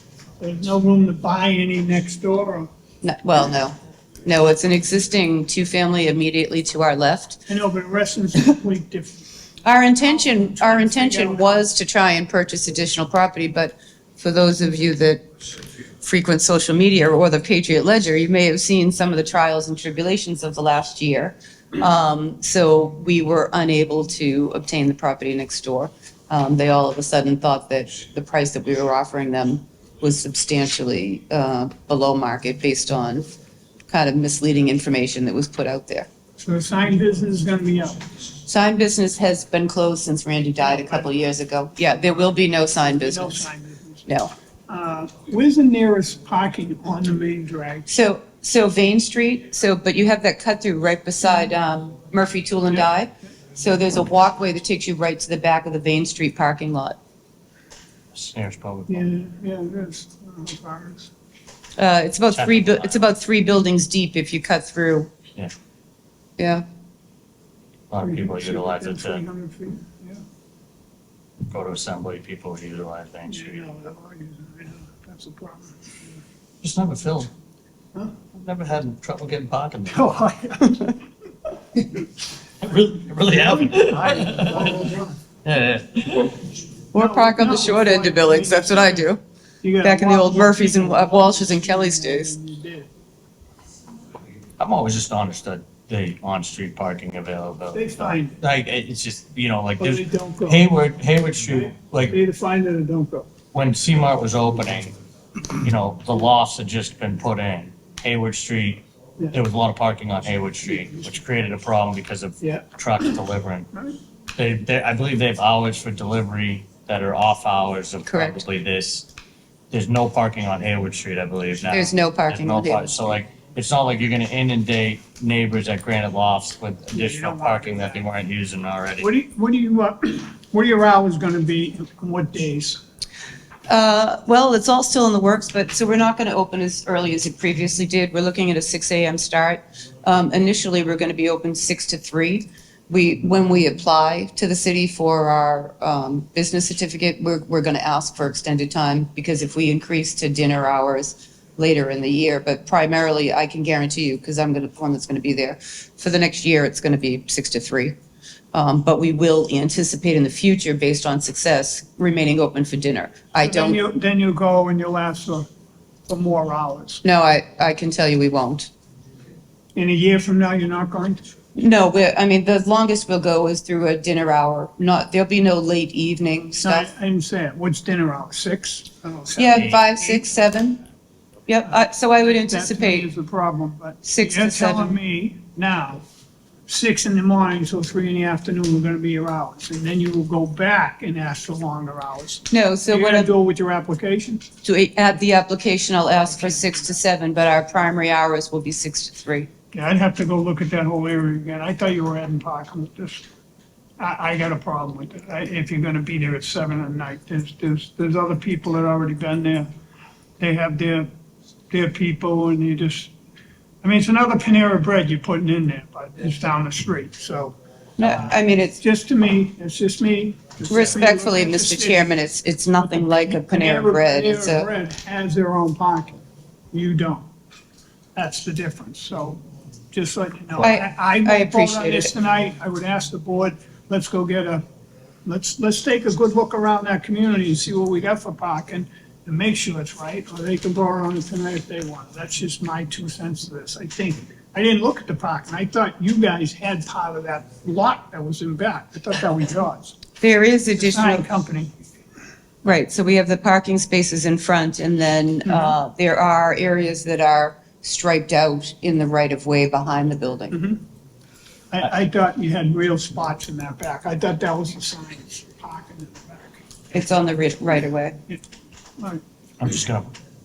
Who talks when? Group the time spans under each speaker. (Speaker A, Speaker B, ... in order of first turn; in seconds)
Speaker A: 0.4-2.7, 7.5-9.3, 10.0-11.7, 36.4-38.0, 40.6-41.1, 43.0-44.1, 44.7-47.9, 58.9-61.1, 68.0-70.2, 73.3-75.9, 79.9-81.0, 83.2-85.2, 86.9-89.1, 89.6-92.9, 97.7-98.4, 99.8-100.7, 101.5-103.3, 112.4-113.2, 126.9-128.1, 129.0-132.8, 163.4-165.5, 166.1-167.0, 169.8-171.2, 176.6-180.2, 182.3-186.0, 186.7-194.5, 196.3-196.9, 199.7-203.3, 204.0-209.7, 210.4-211.1, 211.7-213.1, 213.8-222.1, 222.8-226.2, 226.7-227.3, 228.2-229.4, 229.9-234.6, 235.3-250.0, 250.7-251.7, 255.4-255.7, 260.5-260.8, 261.7-266.6
Speaker B: 3.0-7.4, 9.6-15.2, 16.0-33.3, 33.9-36.1, 38.5-43.5, 47.9-57.0, 61.8-65.1, 66.4-66.7, 86.9-89.2, 89.8-92.3, 118.1-118.4, 121.7-123.1, 133.7-157.9, 158.5-163.8, 167.0-168.7, 171.6-176.9, 179.4-180.8, 181.5-183.1, 184.0-185.0, 192.5-193.3, 194.6-199.5, 218.0-218.8, 220.7-224.7, 230.6-232.1, 250.2-251.3, 252.6-260.6, 266.9-268.2
Speaker C: 58.1-59.1, 62.3-63.0, 67.9-69.2, 71.5-73.6, 76.6-77.3, 78.3-80.2, 82.6-86.5, 94.6-102.2, 103.5-105.0, 105.6-113.7, 114.4-119.1, 119.7-129.1, 179.5-179.8, 269.6-270.1